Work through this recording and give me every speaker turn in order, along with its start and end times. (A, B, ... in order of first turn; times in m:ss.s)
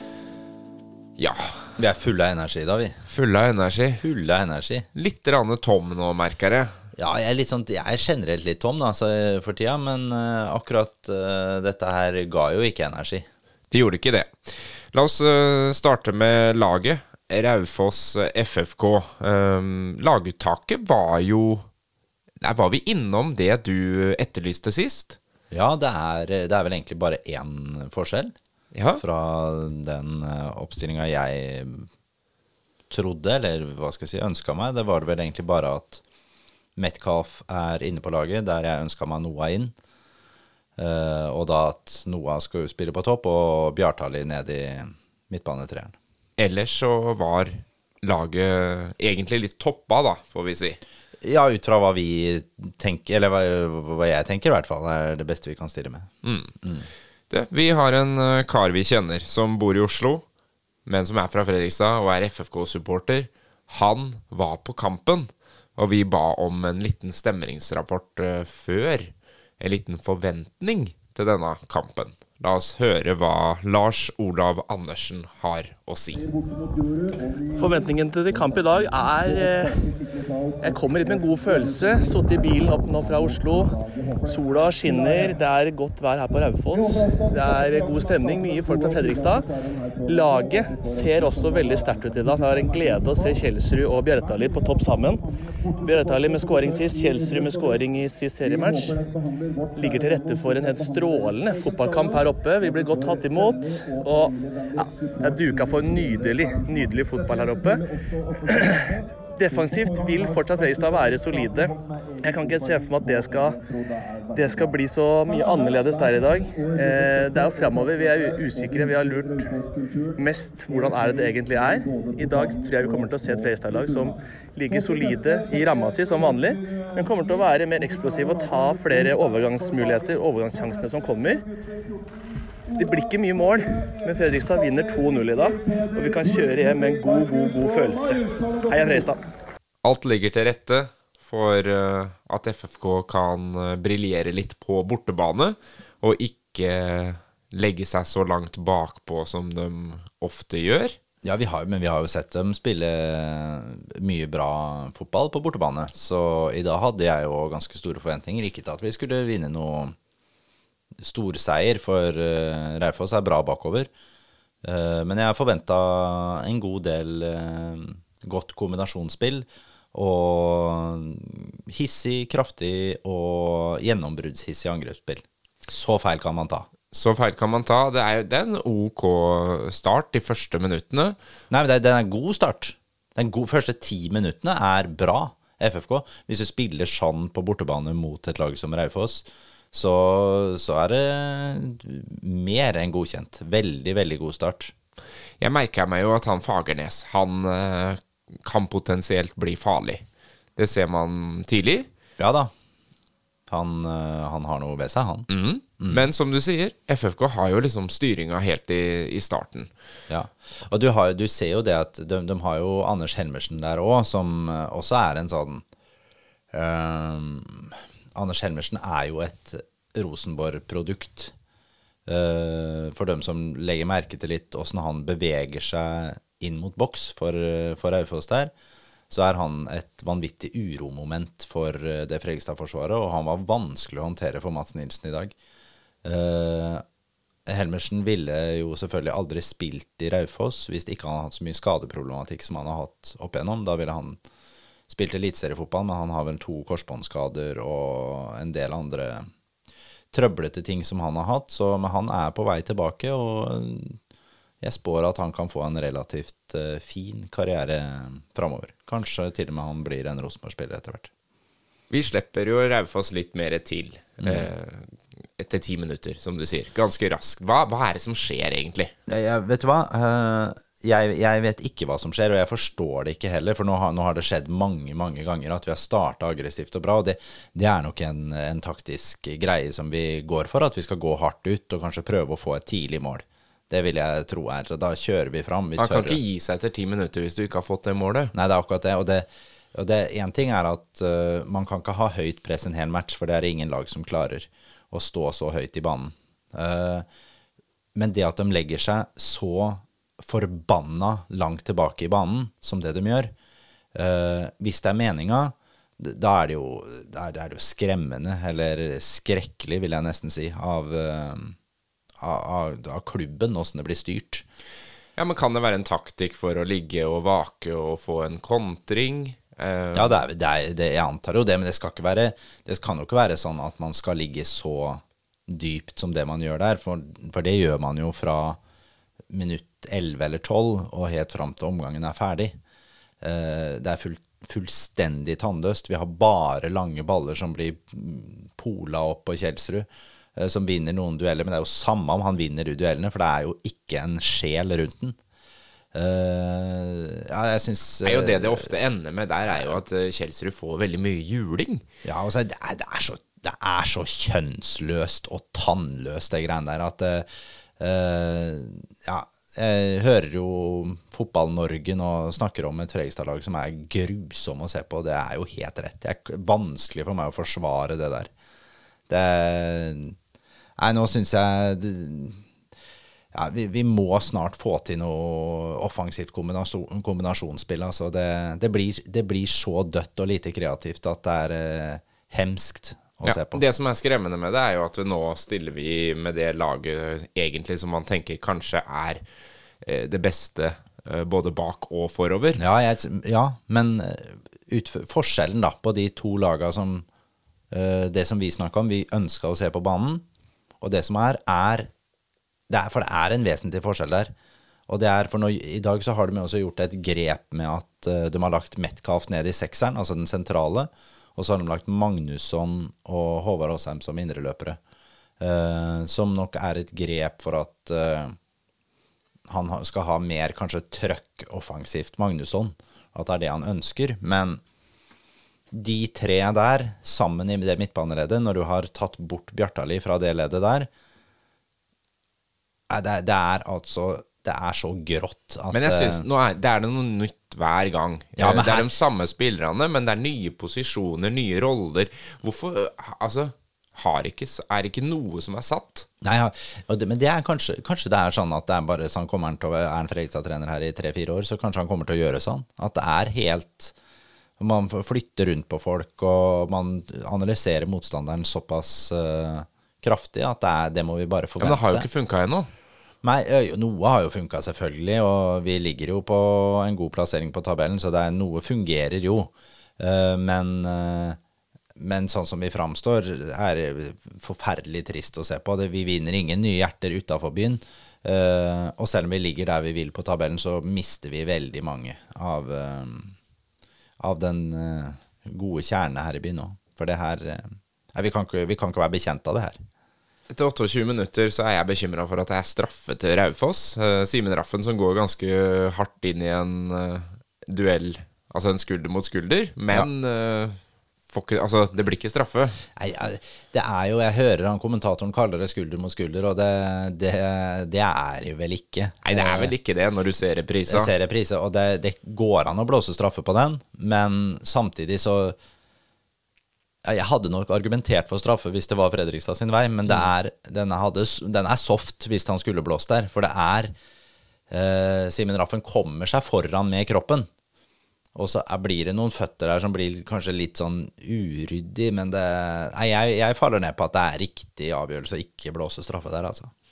0:01.2-0:01.8 A
0:01.8-0:03.0 B
0:03.1-0:04.0 A
0:04.0-0:04.9 B
0:04.9-0:06.8 A
0:07.0-0:13.3 B
0:13.7-0:21.7 A
0:22.4-0:25.2 A
0:25.5-0:28.4 B
0:28.7-0:29.0 A
0:29.0-0:31.9 B
0:32.9-0:36.0 B
0:36.8-0:39.7 B
0:40.8-0:46.0 B
0:46.4-0:50.8 A
0:51.2-0:56.1 B
0:56.2-0:56.5 A
0:56.6-0:56.9 B
0:57.3-1:00.2 A
1:00.9-1:16.3 A
1:17.6-1:19.8 C
1:20.6-1:29.5 C
1:30.0-1:35.2 C
1:35.8-1:39.1 C
1:39.8-1:53.6 C
1:54.3-1:59.6 C
2:00.2-2:11.4 C
2:12.8-2:19.2 C
2:19.8-2:31.0 A
2:31.2-2:40.0 B
2:41.0-2:43.9 B
2:44.6-2:56.7 B
2:56.9-3:01.2 A
3:01.5-3:14.7 B
3:15.4-3:20.0 A
3:20.6-3:21.9 A
3:22.2-3:22.5 B
3:23.5-3:25.3 B
3:25.3-3:29.7 A
3:25.8-3:26.1 B
3:30.1-3:35.6 B
3:36.5-3:41.3 B
3:42.1-3:48.5 B
3:49.1-3:55.4 B
3:56.0-3:56.8 B
3:57.5-4:04.2 B
4:04.9-4:09.3 B
4:10.1-4:14.0 B
4:14.6-4:21.1 B
4:21.9-4:28.9 A
4:24.2-4:24.5 B
4:29.1-4:46.2 B
4:45.8-4:48.3 A
4:48.3-4:57.1 B
4:58.0-5:03.3 B
5:03.9-5:11.6 B
5:12.2-5:14.4 B
5:15.2-5:20.2 A
5:20.0-5:28.6 B
5:29.3-5:32.6 B
5:33.2-5:45.2 B
5:45.9-5:48.7 B
5:48.0-5:51.8 A
5:49.5-5:49.8 B
5:52.0-5:57.3 B
5:57.8-6:08.3 B
6:09.1-6:10.2 B
6:10.8-6:12.4 B
6:13.3-6:23.6 B
6:23.2-6:29.2 A
6:29.8-6:32.6 A
6:32.6-6:37.1 B
6:37.7-6:40.2 B
6:40.8-6:41.9 B
6:42.7-6:44.3 B
6:44.9-6:54.8 B
6:55.4-6:58.4 B
6:59.5-7:04.6 B
7:05.7-7:10.9 B
7:12.9-7:16.3 B
7:15.7-7:26.1 A
7:18.4-7:18.9 B
7:26.2-7:34.0 B
7:34.6-7:42.1 B
7:41.6-7:42.7 A
7:43.2-7:51.4 B
7:52.0-8:03.3 B
8:04.2-8:09.8 B
8:10.5-8:22.8 A
8:23.0-8:29.7 B
8:29.2-8:31.1 A
8:30.9-8:35.6 B
8:37.0-8:43.9 B
8:44.7-8:47.5 B
8:48.4-8:56.7 B